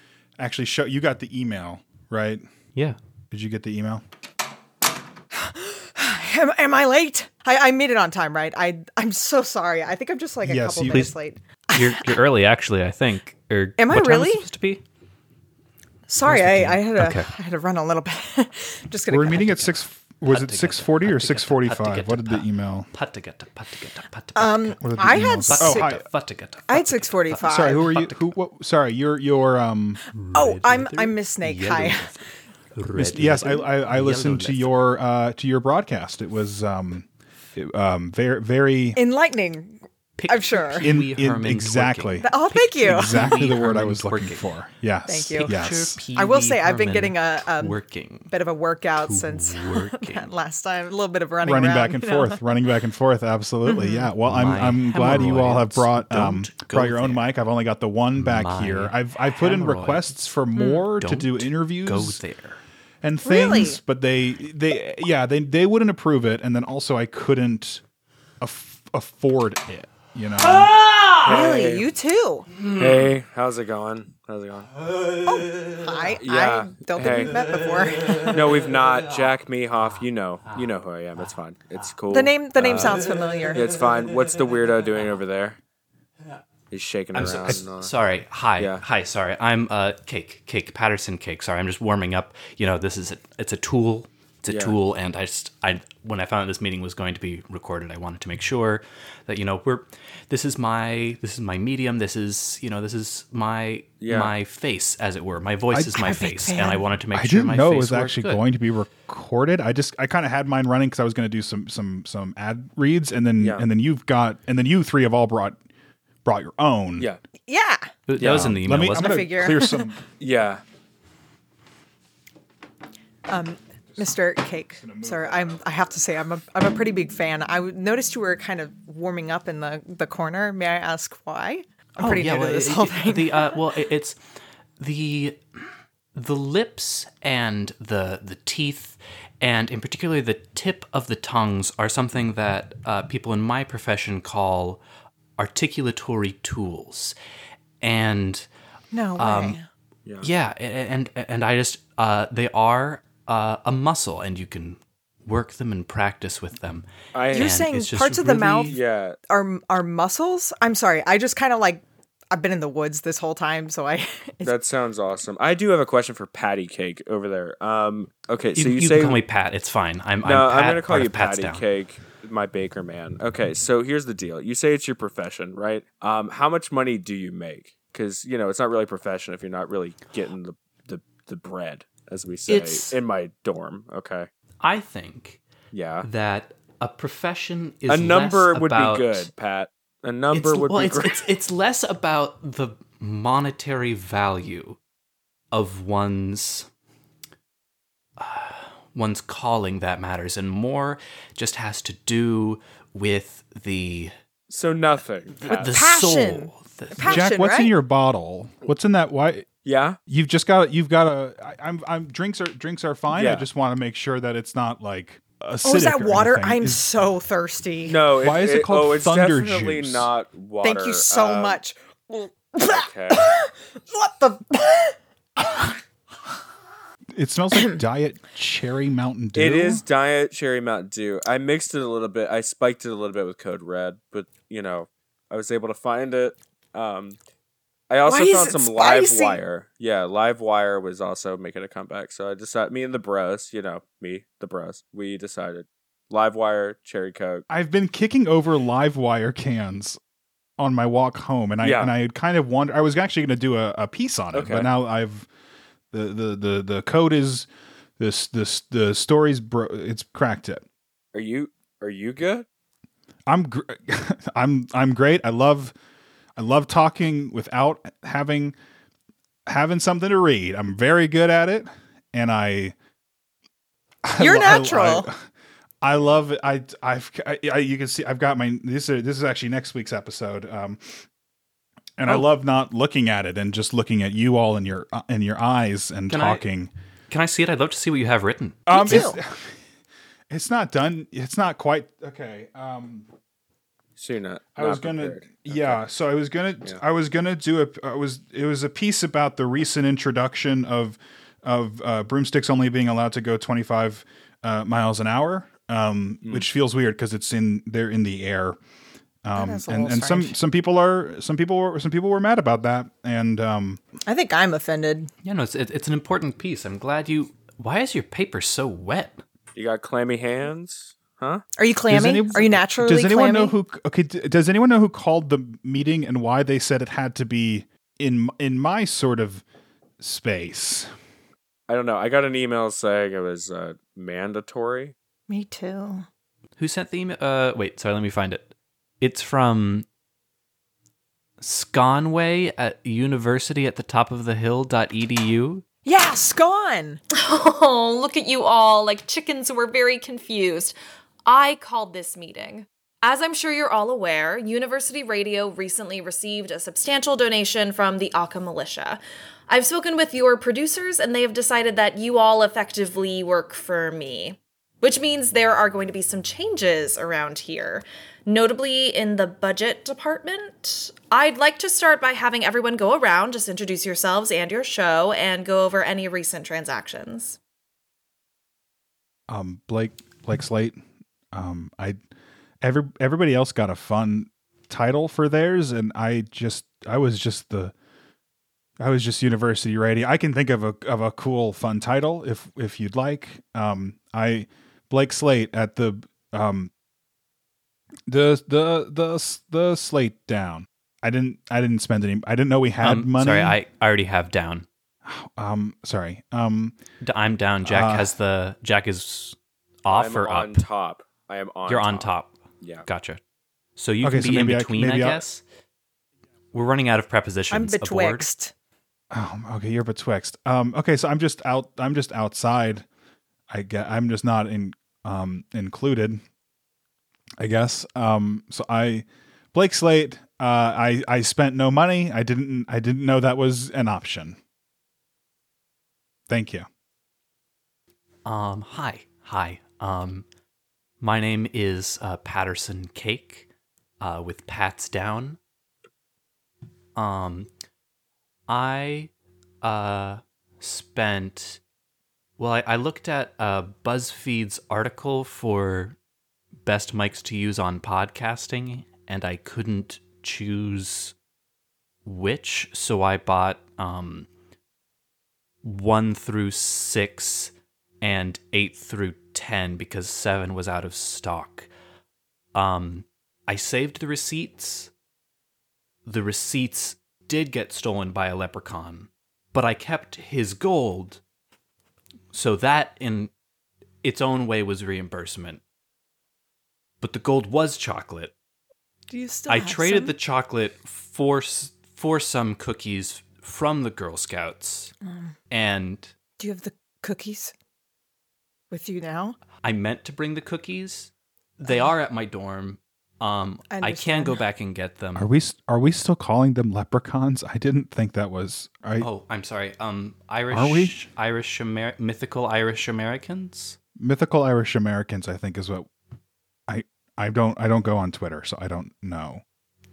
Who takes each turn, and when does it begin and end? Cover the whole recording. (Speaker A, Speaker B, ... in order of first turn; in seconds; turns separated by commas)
Speaker A: 0.4-2.4, Speaker A: 3.3-4.0, Speaker B: 5.3-12.2, Speaker A: 10.4-11.1, Speaker C: 10.8-11.2, Speaker C: 11.7-14.8, Speaker B: 13.8-14.5, Speaker B: 16.1-19.6, Speaker C: 16.2-17.3, Speaker A: 19.1-22.9, Speaker C: 19.4-24.8, Speaker B: 24.4-25.9, Speaker A: 24.8-26.0, Speaker C: 25.4-28.3, Speaker B: 26.7-27.9, Speaker A: 27.4-30.0, Speaker C: 30.1-34.7, Speaker B: 30.3-32.1, Speaker A: 33.0-39.0, Speaker B: 39.0-40.9, Speaker C: 40.1-44.6, Speaker A: 40.8-42.3, Speaker B: 42.2-43.4, Speaker A: 42.8-46.0, Speaker B: 45.1-45.5, Speaker C: 45.4-48.3, Speaker B: 46.1-52.4, Speaker C: 49.0-50.3, Speaker A: 51.4-62.2, Speaker B: 53.6-54.1, Speaker C: 54.2-57.2, Speaker C: 58.1-60.2, Speaker B: 60.5-60.8, Speaker C: 60.9-62.6, Speaker A: 63.0-67.8, Speaker B: 63.2-63.8, Speaker A: 68.4-70.7, Speaker C: 70.5-71.1, Speaker D: 71.2-71.9, Speaker B: 71.3-72.5, Speaker C: 72.6-73.1, Speaker D: 72.8-74.7, Speaker B: 75.2-78.3, Speaker D: 76.1-77.4, Speaker D: 78.2-85.6, Speaker B: 82.1-83.6, Speaker D: 86.7-87.9, Speaker C: 87.1-108.4, Speaker D: 88.6-88.8, Speaker D: 94.5-94.8, Speaker D: 104.0-104.3, Speaker A: 105.7-106.0, Speaker B: 105.9-106.8, Speaker A: 107.1-115.6, Speaker D: 113.4-113.7, Speaker A: 116.2-117.1, Speaker B: 117.5-117.9, Speaker C: 118.1-119.1, Speaker D: 118.2-118.5, Speaker A: 118.2-120.0, Speaker B: 118.9-120.0, Speaker D: 120.2-120.6, Speaker B: 123.3-133.6, Speaker A: 123.9-126.0, Speaker C: 132.0-134.2, Speaker C: 134.8-135.4, Speaker C: 136.1-144.8, Speaker C: 145.4-147.2, Speaker C: 147.8-148.5, Speaker B: 148.9-149.7, Speaker C: 149.2-149.6, Speaker D: 150.1-150.3, Speaker C: 150.2-158.8, Speaker D: 157.1-157.6, Speaker B: 157.3-164.6, Speaker D: 158.7-159.2, Speaker D: 164.4-169.2, Speaker C: 168.5-171.6, Speaker D: 170.2-184.3, Speaker C: 182.5-183.0, Speaker C: 184.6-185.4, Speaker D: 185.7-186.1, Speaker C: 186.0-189.3, Speaker D: 187.9-191.2, Speaker C: 190.3-194.8, Speaker C: 195.5-196.7, Speaker C: 198.2-204.1, Speaker D: 204.5-205.8, Speaker C: 205.3-207.2, Speaker B: 205.5-207.7, Speaker A: 207.1-209.5, Speaker D: 209.6-210.0, Speaker A: 210.1-216.9, Speaker D: 213.1-213.5, Speaker B: 215.6-218.0, Speaker D: 217.8-221.6, Speaker A: 218.2-220.1, Speaker B: 220.6-225.7, Speaker D: 222.7-223.2, Speaker A: 227.1-229.8, Speaker D: 229.3-237.2, Speaker D: 237.9-247.4, Speaker B: 238.0-239.4, Speaker A: 247.5-250.0, Speaker A: 250.6-255.3, Speaker D: 251.6-251.9, Speaker D: 254.3-254.7, Speaker A: 255.9-260.6, Speaker D: 261.1-262.4, Speaker A: 263.3-265.7, Speaker A: 266.4-268.6, Speaker A: 269.5-272.7, Speaker A: 274.0-275.2, Speaker B: 274.2-275.1, Speaker A: 275.8-281.0, Speaker A: 282.0-286.7, Speaker C: 286.1-286.4, Speaker C: 287.1-289.1, Speaker B: 288.7-289.2, Speaker A: 288.7-289.5, Speaker A: 290.3-293.1, Speaker D: 294.0-295.8, Speaker A: 294.6-308.6, Speaker A: 309.2-313.8, Speaker B: 309.4-310.4, Speaker B: 314.1-315.1, Speaker C: 315.2-319.2, Speaker D: 319.5-321.4, Speaker B: 321.6-323.5, Speaker A: 321.9-329.4, Speaker A: 330.0-330.9, Speaker D: 331.7-334.9, Speaker B: 335.3-336.1, Speaker C: 336.6-339.9, Speaker C: 341.4-345.6, Speaker B: 345.8-347.0, Speaker E: 347.1-377.4, Speaker A: 379.3-380.8, Speaker A: 381.3-382.0, Speaker A: 382.6-387.7, Speaker A: 388.8-396.7, Speaker A: 398.1-403.6, Speaker C: 402.8-404.6, Speaker A: 405.0-406.8, Speaker C: 407.0-410.6, Speaker A: 407.6-408.1, Speaker D: 409.9-412.9, Speaker C: 411.6-413.2, Speaker C: 413.8-415.4, Speaker A: 414.0-415.2, Speaker C: 416.5-418.3, Speaker B: 417.5-418.5, Speaker A: 419.1-422.9, Speaker A: 423.5-426.2, Speaker A: 427.4-434.4, Speaker A: 436.3-436.6, Speaker C: 438.2-440.2, Speaker C: 441.0-443.5, Speaker C: 444.0-445.4, Speaker C: 446.9-447.5, Speaker C: 448.5-451.6, Speaker C: 452.4-456.0, Speaker C: 456.6-461.1, Speaker C: 462.0-464.3, Speaker C: 465.6-471.7, Speaker C: 472.5-474.9, Speaker C: 476.0-481.2, Speaker C: 482.3-483.3, Speaker C: 484.0-485.6, Speaker C: 487.0-488.3, Speaker B: 489.1-490.1, Speaker C: 489.5-494.9, Speaker B: 495.0-495.3, Speaker C: 495.5-496.1, Speaker B: 496.4-497.5, Speaker B: 498.7-499.4, Speaker C: 499.6-505.3, Speaker B: 503.7-504.4, Speaker A: 505.1-509.1, Speaker C: 509.0-513.8, Speaker A: 510.5-510.9, Speaker A: 514.0-515.9, Speaker A: 516.7-519.4